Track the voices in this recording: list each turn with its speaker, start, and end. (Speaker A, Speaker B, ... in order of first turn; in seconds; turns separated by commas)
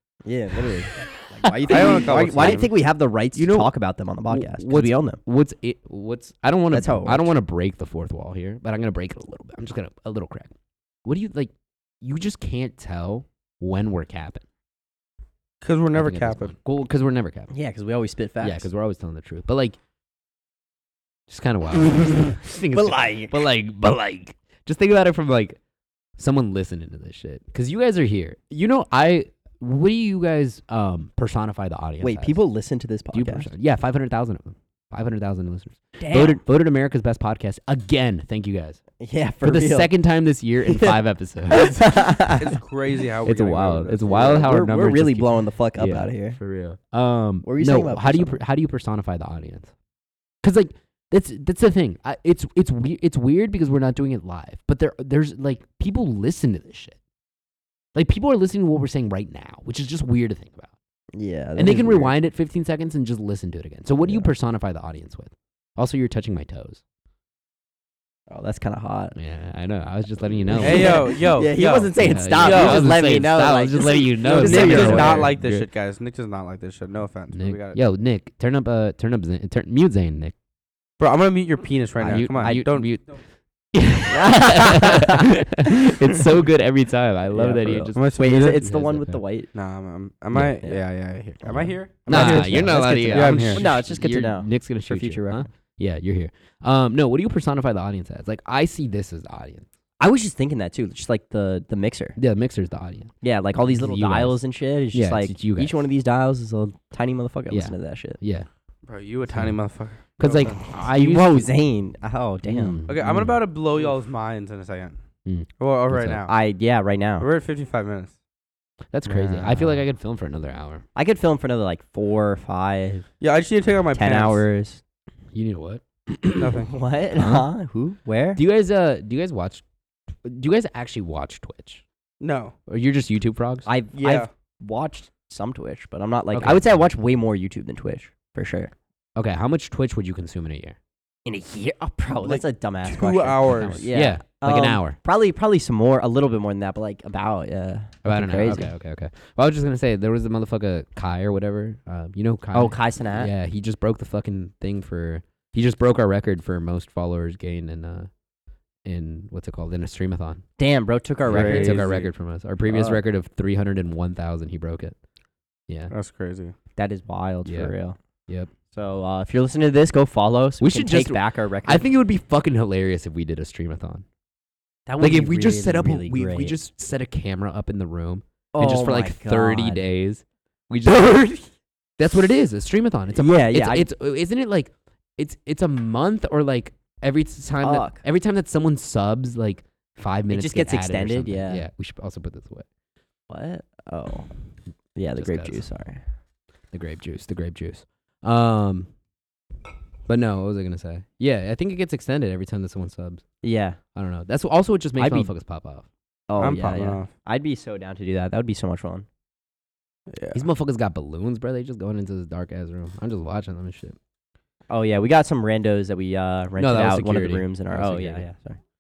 Speaker A: 0.2-5.2, Speaker B: 1.4-2.7, Speaker C: 1.7-2.7, Speaker B: 3.4-3.7, Speaker B: 4.3-10.5, Speaker A: 6.7-7.3, Speaker B: 11.1-14.4, Speaker C: 15.6-16.5, Speaker B: 15.9-17.5, Speaker A: 17.5-18.7, Speaker B: 18.4-19.8, Speaker B: 21.3-25.6, Speaker A: 22.7-23.4, Speaker B: 26.2-32.4, Speaker A: 32.0-33.5, Speaker B: 33.1-38.8, Speaker A: 36.0-36.4, Speaker A: 39.0-39.9, Speaker B: 39.4-42.1, Speaker A: 40.7-41.0, Speaker A: 41.5-42.5, Speaker C: 42.4-44.3, Speaker B: 43.2-49.7, Speaker A: 44.1-46.4, Speaker A: 47.4-48.4, Speaker B: 50.4-57.0, Speaker B: 57.9-60.7, Speaker A: 61.1-62.1, Speaker B: 61.6-66.8, Speaker A: 64.0-64.3, Speaker A: 68.3-69.2, Speaker B: 69.2-71.1, Speaker A: 70.5-75.3, Speaker C: 70.6-72.9, Speaker B: 72.0-75.7, Speaker C: 74.2-77.8, Speaker B: 77.3-80.3, Speaker C: 81.0-82.9, Speaker A: 82.0-82.7, Speaker B: 82.1-83.1, Speaker B: 83.7-89.2, Speaker A: 84.1-85.3, Speaker A: 87.3-89.5, Speaker C: 88.0-88.5, Speaker C: 89.5-93.6, Speaker A: 91.5-95.5, Speaker B: 92.1-99.7, Speaker A: 100.0-102.2, Speaker B: 102.2-104.4, Speaker A: 103.2-108.2, Speaker B: 104.9-105.8, Speaker B: 107.5-108.5, Speaker C: 108.9-110.6, Speaker B: 109.3-109.6, Speaker B: 110.2-111.5, Speaker A: 110.9-112.8, Speaker B: 112.4-113.4, Speaker C: 112.9-115.0, Speaker B: 115.3-116.2, Speaker C: 115.6-116.3, Speaker A: 116.3-117.3, Speaker C: 117.2-118.2, Speaker B: 118.9-120.8, Speaker C: 119.1-119.8, Speaker A: 121.0-123.1, Speaker C: 123.2-124.5, Speaker A: 123.9-124.8, Speaker B: 125.3-126.6, Speaker C: 126.4-126.7, Speaker A: 126.7-128.4, Speaker B: 127.2-127.5, Speaker B: 128.4-129.6, Speaker B: 130.2-131.8, Speaker C: 132.2-132.6, Speaker B: 132.7-133.7, Speaker A: 133.7-138.7, Speaker C: 133.9-134.3, Speaker B: 136.3-136.9, Speaker B: 139.2-140.8, Speaker A: 141.3-148.7, Speaker C: 142.2-143.9, Speaker B: 143.5-145.0, Speaker B: 148.0-158.1, Speaker A: 152.5-153.3, Speaker B: 158.9-160.4, Speaker A: 160.6-161.9, Speaker B: 161.3-165.0, Speaker C: 161.3-162.1, Speaker A: 162.7-163.0, Speaker B: 165.7-165.9, Speaker C: 165.9-166.5, Speaker A: 166.8-168.0, Speaker B: 167.4-167.7, Speaker A: 168.7-171.9, Speaker B: 170.6-174.1, Speaker A: 174.9-176.6, Speaker B: 175.0-192.7, Speaker A: 178.5-179.8, Speaker A: 183.2-183.9, Speaker A: 187.6-188.0, Speaker A: 190.3-191.7, Speaker A: 193.3-194.3, Speaker A: 194.9-196.0, Speaker B: 195.2-195.7, Speaker B: 196.7-198.9, Speaker B: 200.1-203.2, Speaker A: 203.4-203.8, Speaker B: 203.9-205.9, Speaker A: 205.0-205.3, Speaker A: 206.3-209.1, Speaker C: 206.4-207.1, Speaker C: 210.1-210.4, Speaker B: 210.3-214.0, Speaker A: 214.7-218.6, Speaker B: 216.6-218.2